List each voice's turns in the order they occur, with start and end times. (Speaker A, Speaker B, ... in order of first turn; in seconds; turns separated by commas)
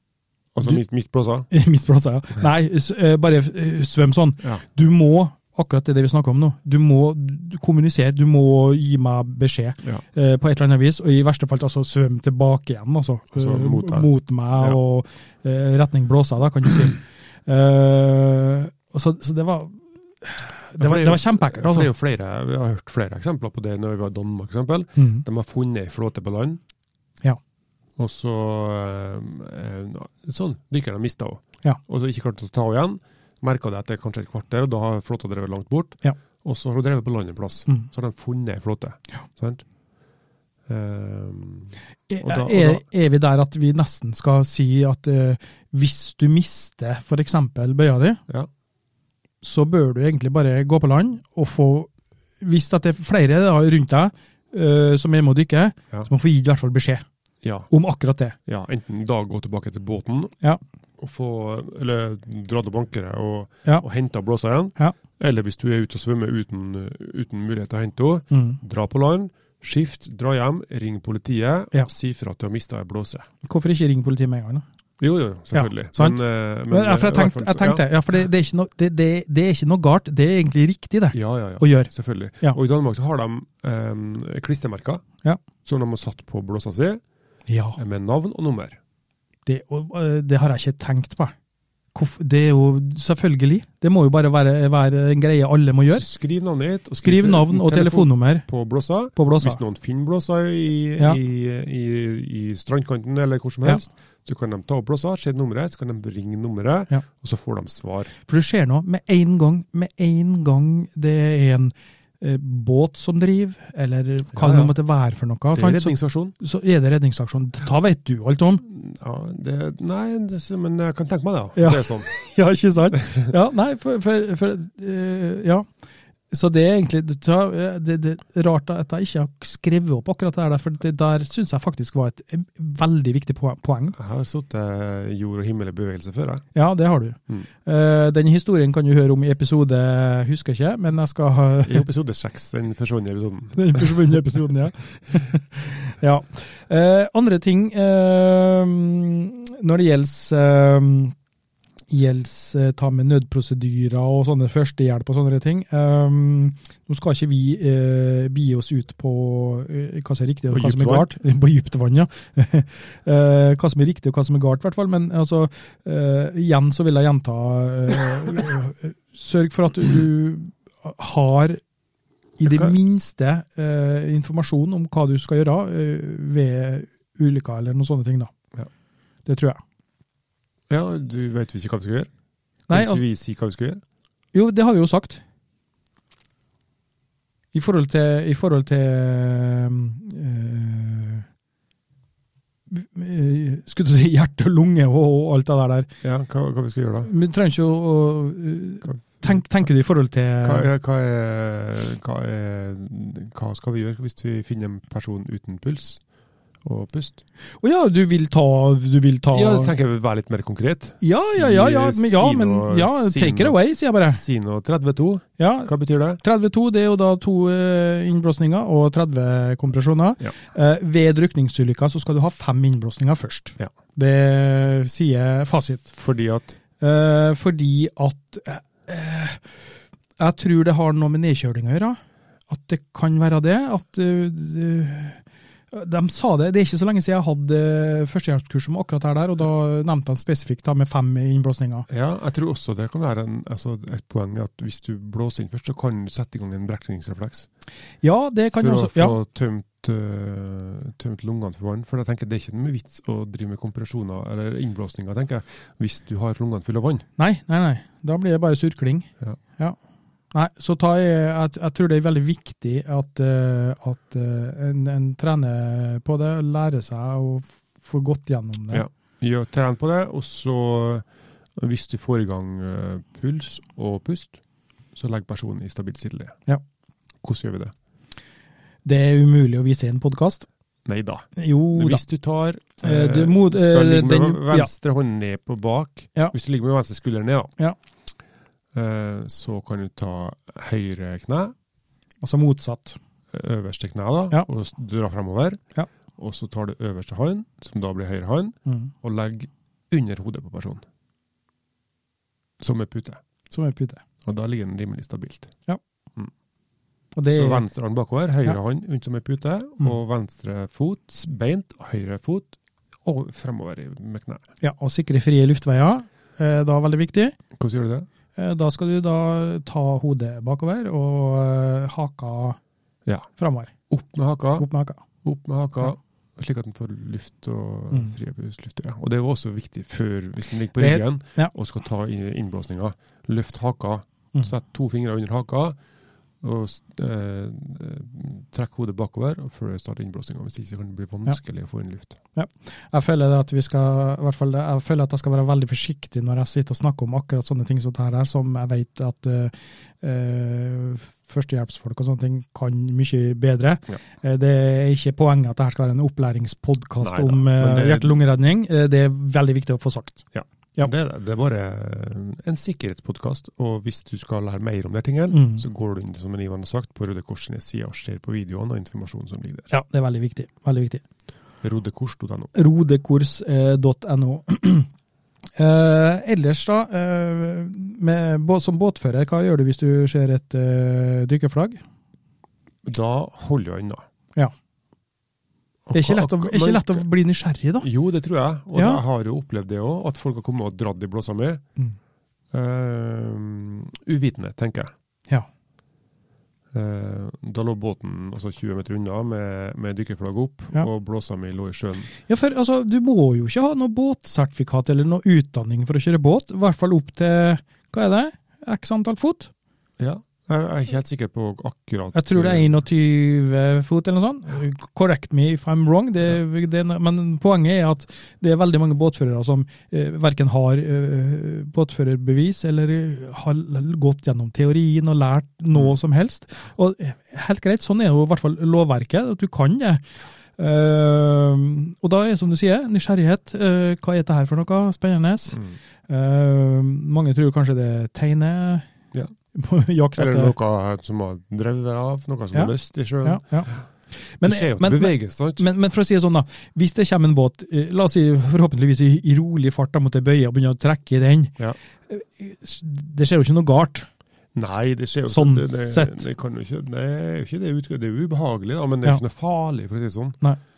Speaker A: 0.6-1.5, Speaker B: 1.5-21.9, Speaker A: 13.4-14.8, Speaker A: 20.8-26.6, Speaker B: 25.0-25.2, Speaker A: 28.0-39.6, Speaker A: 40.7-42.8, Speaker B: 42.1-48.2, Speaker B: 49.4-51.9, Speaker B: 52.4-57.0, Speaker A: 57.4-57.7, Speaker B: 57.7-58.4, Speaker A: 58.5-60.3, Speaker A: 61.0-73.3, Speaker B: 68.3-68.6, Speaker B: 73.4-74.6, Speaker A: 75.0-77.8, Speaker B: 75.5-76.2, Speaker B: 76.7-82.6, Speaker A: 81.1-85.0, Speaker A: 85.6-87.0, Speaker B: 87.5-87.8, Speaker A: 87.8-88.8, Speaker B: 89.5-91.3, Speaker B: 91.9-96.0, Speaker A: 95.9-108.1, Speaker B: 97.0-98.5, Speaker B: 99.2-99.6, Speaker B: 108.3-118.7, Speaker A: 114.3-114.7, Speaker A: 115.5-116.3, Speaker A: 118.7-122.1, Speaker B: 121.6-125.7, Speaker A: 123.0-123.3, Speaker B: 126.3-134.0, Speaker A: 133.9-136.5, Speaker B: 136.5-141.9, Speaker A: 141.7-144.2, Speaker B: 143.6-151.2, Speaker B: 151.9-171.6, Speaker A: 160.5-161.1, Speaker B: 172.4-178.3, Speaker A: 172.4-172.7, Speaker B: 179.3-179.6, Speaker A: 180.7-182.1, Speaker B: 182.7-183.0, Speaker A: 182.7-183.8, Speaker B: 184.3-185.2, Speaker B: 187.5-191.2, Speaker B: 192.7-195.9, Speaker A: 196.0-197.1, Speaker B: 197.0-200.7, Speaker A: 198.8-199.7, Speaker A: 200.4-206.0, Speaker A: 206.6-207.2, Speaker B: 207.6-209.7, Speaker A: 209.3-213.6, Speaker B: 211.0-214.2, Speaker A: 214.1-216.2, Speaker B: 215.4-225.9, Speaker A: 225.9-226.6, Speaker B: 226.8-229.5, Speaker B: 230.2-241.9, Speaker A: 241.9-247.5, Speaker B: 248.0-249.2, Speaker A: 248.6-257.1, Speaker B: 257.2-259.8, Speaker B: 260.3-268.8, Speaker A: 268.7-271.1, Speaker A: 271.6-274.4, Speaker A: 274.9-276.4, Speaker A: 277.2-277.7, Speaker B: 278.9-280.5, Speaker A: 280.9-287.5, Speaker B: 281.4-282.0, Speaker B: 282.8-284.7, Speaker A: 288.7-291.6, Speaker B: 292.2-293.0, Speaker A: 293.3-295.6, Speaker A: 296.2-300.8, Speaker B: 298.7-298.9, Speaker A: 302.6-303.2, Speaker B: 303.5-304.0, Speaker A: 304.2-305.5, Speaker B: 307.1-307.6, Speaker A: 307.3-314.4, Speaker B: 314.6-317.4, Speaker A: 317.6-318.1, Speaker B: 318.4-322.6, Speaker B: 323.4-323.7, Speaker A: 323.9-324.7, Speaker B: 324.6-325.0, Speaker A: 325.2-335.8, Speaker B: 330.8-331.5, Speaker A: 336.4-342.2, Speaker B: 342.4-360.9, Speaker A: 357.0-358.2, Speaker A: 360.3-369.7, Speaker B: 365.3-365.6, Speaker B: 369.7-371.0, Speaker A: 371.6-372.5, Speaker B: 372.5-374.9, Speaker B: 375.6-381.8, Speaker A: 382.9-384.0, Speaker A: 385.9-387.1, Speaker B: 385.9-387.9, Speaker A: 387.8-391.6, Speaker B: 388.8-389.0, Speaker A: 392.5-394.9, Speaker A: 396.7-402.1, Speaker B: 402.3-409.5, Speaker A: 410.0-412.8, Speaker B: 412.1-430.0, Speaker B: 430.6-438.9, Speaker B: 439.5-440.5, Speaker A: 440.2-443.8, Speaker B: 442.5-443.7, Speaker B: 444.3-451.6, Speaker A: 444.4-445.6, Speaker B: 452.1-454.1, Speaker A: 454.6-460.4, Speaker B: 455.3-456.3